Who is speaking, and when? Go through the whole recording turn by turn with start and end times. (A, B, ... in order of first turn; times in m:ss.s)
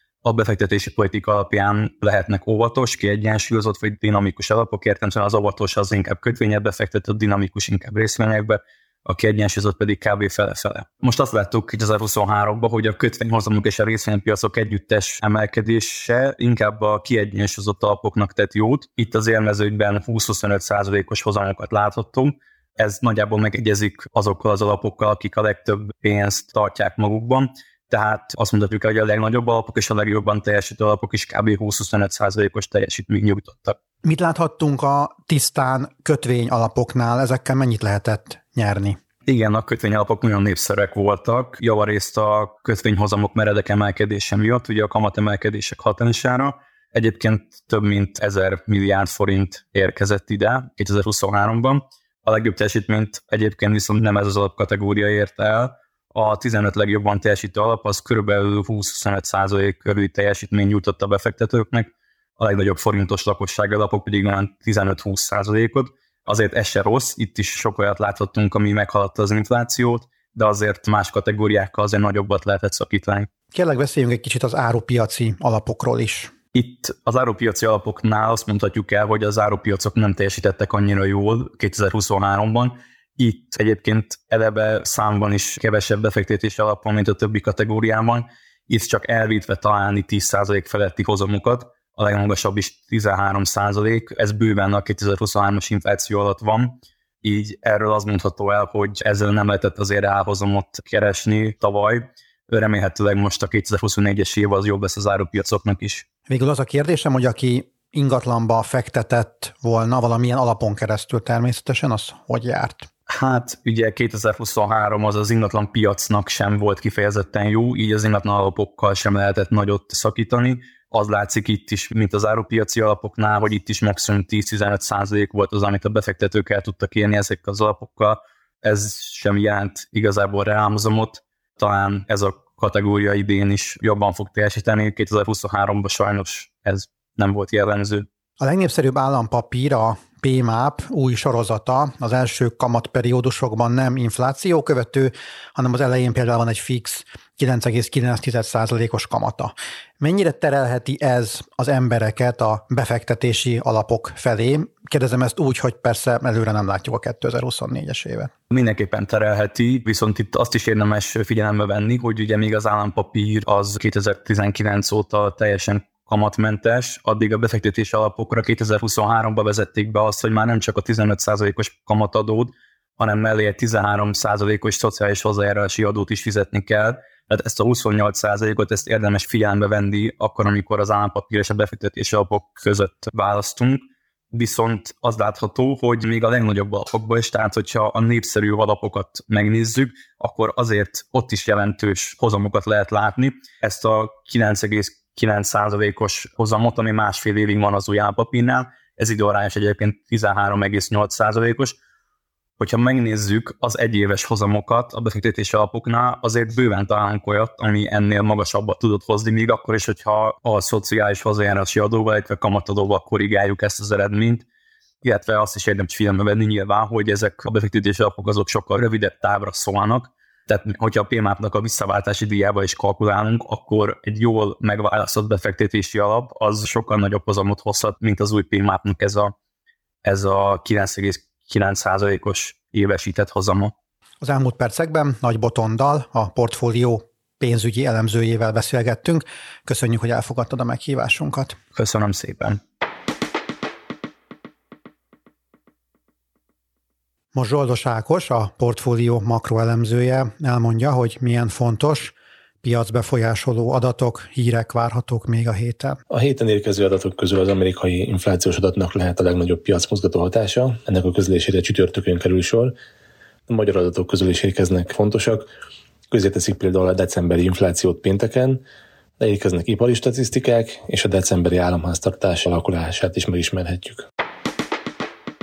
0:00.2-0:33.8 A
0:34.0-0:39.0 B
0:39.2-1:13.3 A
1:13.5-1:16.3 B
1:16.5-1:46.0 A
1:46.3-1:52.9 B
1:53.1-2:18.1 A
2:18.4-2:38.3 B
2:38.5-3:21.8 A
3:22.6-3:34.4 A
3:35.0-3:49.3 A
3:50.0-3:53.7 A
3:54.2-4:01.6 B
4:01.7-4:02.6 A
4:07.3-4:16.0 B
4:16.1-4:22.8 C
4:23.5-4:25.5 C
4:26.1-4:28.6 C
4:29.2-4:34.0 C